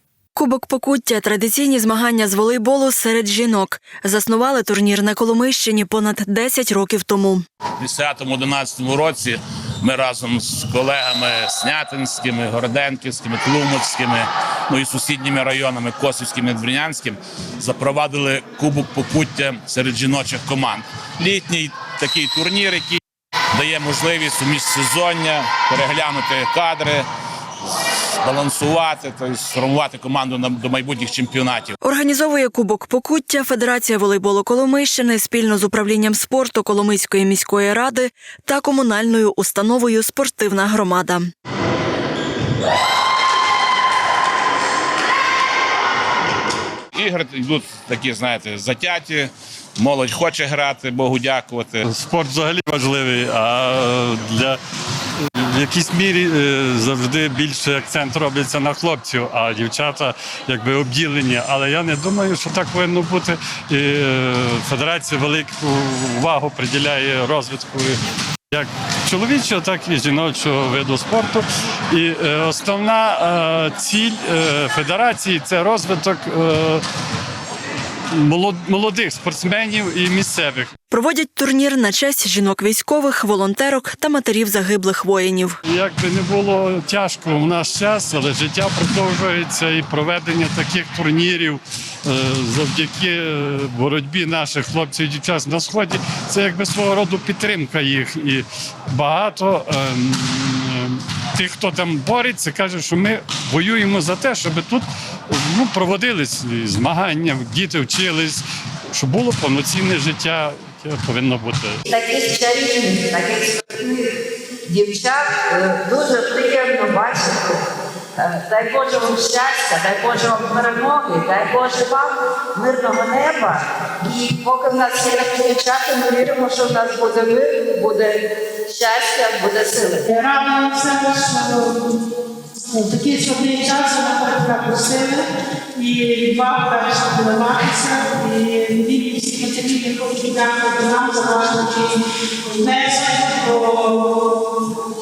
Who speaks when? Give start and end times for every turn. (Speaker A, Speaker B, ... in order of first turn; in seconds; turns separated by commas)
Speaker A: 0.3-7.5, Speaker B: 7.8-23.0, Speaker B: 23.5-27.1, Speaker B: 28.2-31.7, Speaker A: 31.8-41.3, Speaker B: 46.9-51.9, Speaker C: 51.9-54.6, Speaker C: 55.4-68.0, Speaker C: 68.5-76.8, Speaker C: 78.2-80.7, Speaker A: 80.9-85.6, Speaker C: 85.7-111.8, Speaker D: 111.9-114.1, Speaker D: 114.7-117.6, Speaker D: 118.2-130.1, Speaker E: 130.1-131.9, Speaker E: 132.7-144.5